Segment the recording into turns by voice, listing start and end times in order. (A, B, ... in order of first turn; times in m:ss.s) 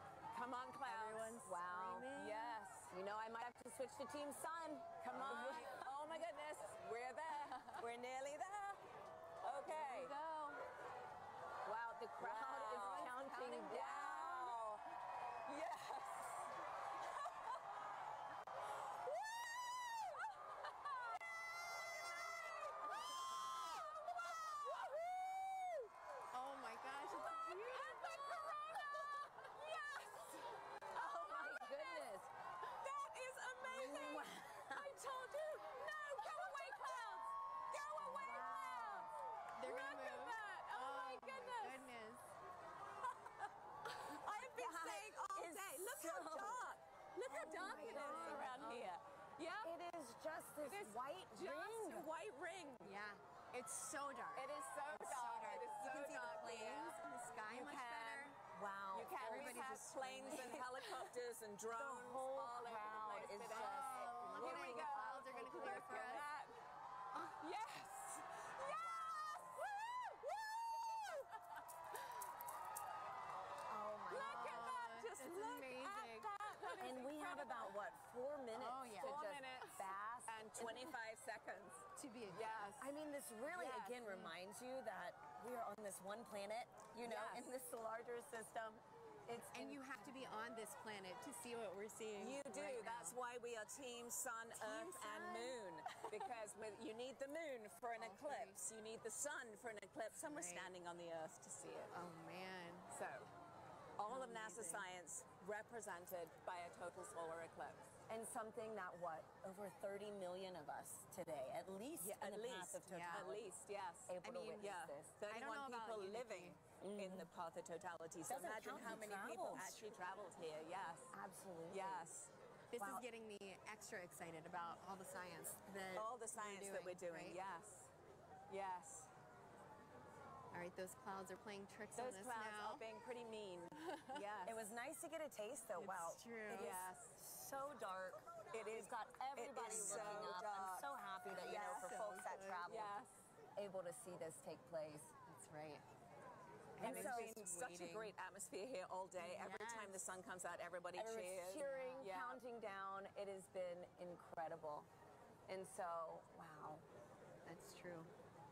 0:00.3-0:03.0 A
0:00.8-0:02.6 B
0:01.4-0:02.1 C
0:02.9-0:06.2 C
0:05.0-0:08.8 A
0:09.4-0:10.1 A
0:09.7-0:10.5 C
0:10.0-0:10.3 B
0:11.6-0:14.6 C
0:12.2-0:14.8 A
0:13.0-0:13.7 B
0:15.4-0:17.6 A
0:19.4-0:19.7 A
0:22.4-0:22.9 A
0:23.6-0:25.8 A
0:26.3-0:28.3 B
0:27.2-0:32.1 A
0:30.9-0:32.3 C
0:32.7-0:41.9 A
0:33.6-0:34.9 C
0:38.0-0:39.1 C
0:39.5-0:42.2 B
0:43.2-0:43.5 A
0:44.0-0:49.7 A
0:44.3-0:46.6 C
0:47.2-0:48.9 C
0:47.3-0:48.9 B
0:49.6-0:52.1 C
0:50.6-0:53.0 A
0:52.8-0:58.4 B
0:54.3-0:58.3 A
0:58.5-1:01.2 C
0:58.9-1:06.6 A
0:59.2-1:00.7 B
1:01.7-1:06.1 C
1:03.5-1:06.3 B
1:07.3-1:11.4 A
1:08.7-1:09.5 C
1:13.7-1:14.8 C
1:14.1-1:17.8 A
1:14.1-1:16.9 B
1:16.8-1:20.5 C
1:18.5-1:20.9 B
1:19.0-1:19.9 A
1:20.5-1:22.7 A
1:22.0-1:22.9 B
1:22.8-1:30.1 C
1:23.5-1:24.3 B
1:27.0-1:27.6 A
1:29.5-1:33.2 B
1:32.2-1:41.9 A
1:34.6-1:36.3 B
1:37.9-1:38.6 B
1:40.1-1:40.7 B
1:41.9-1:42.9 B
1:42.9-1:43.3 A
1:44.0-1:47.9 A
1:44.1-1:44.9 B
1:48.1-1:53.5 C
1:52.0-2:01.2 A
1:52.9-1:53.3 B
1:54.1-1:55.1 C
1:54.2-1:56.6 B
1:56.8-1:57.3 C
1:58.2-1:59.7 C
2:01.1-2:02.1 C
2:01.7-2:02.3 A
2:02.7-2:07.4 B
2:02.8-2:03.0 C
2:05.9-2:07.9 A
2:08.5-2:09.1 A
2:10.5-2:12.8 B
2:11.9-2:14.6 A
2:13.8-2:14.2 B
2:14.4-2:23.0 C
2:15.8-2:16.9 B
2:16.5-2:17.2 A
2:18.5-2:22.0 A
2:19.6-2:20.4 B
2:21.3-2:22.7 B
2:22.7-2:23.2 A
2:23.6-2:25.1 C
2:25.2-2:25.8 B
2:26.8-2:28.1 B
2:26.8-2:27.4 C
2:26.8-2:32.4 A
2:29.2-2:30.0 B
2:30.9-2:34.9 C
2:31.5-2:32.1 B
2:35.5-2:36.8 C
2:37.4-2:38.1 B